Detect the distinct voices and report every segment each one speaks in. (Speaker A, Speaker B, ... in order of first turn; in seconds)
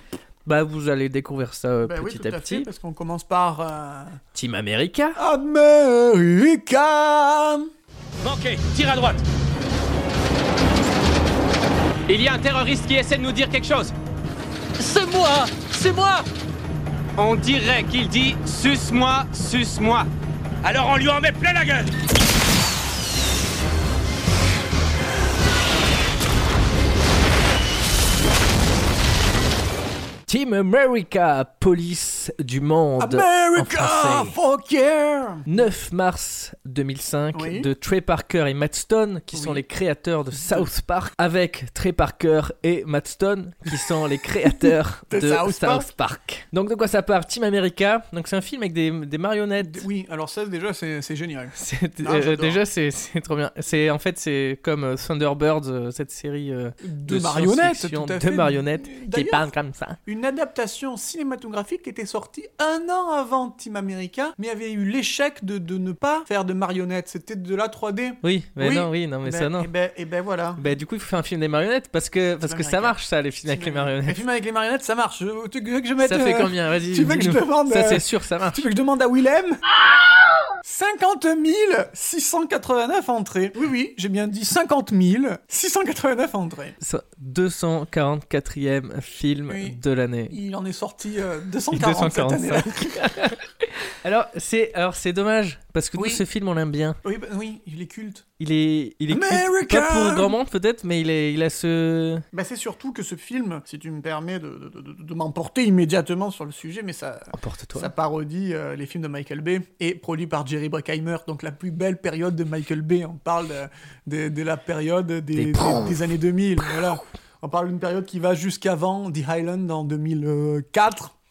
Speaker A: 0.4-2.7, 4.3-5.2, 30.3-34.4, 35.5-49.9, 51.6-60.0, 68.2-69.7, 70.6-74.2, 76.0-78.6, 86.8-90.4, 91.7-97.0, 98.4-102.2, 107.3-107.9, 115.3-116.1
Speaker B: 1.8-4.2, 5.2-7.7, 33.0-35.5, 37.3-37.7, 39.3-39.6, 40.3-40.7, 44.4-45.9, 49.6-52.6, 56.8-59.5, 60.0-70.6, 72.5-79.6, 80.6-86.8, 89.5-93.2, 96.0-96.2, 97.0-98.2, 99.1-100.3, 102.3-121.1
Speaker C: 8.2-9.2, 12.1-13.9, 14.8-16.3, 17.2-20.1, 20.6-21.9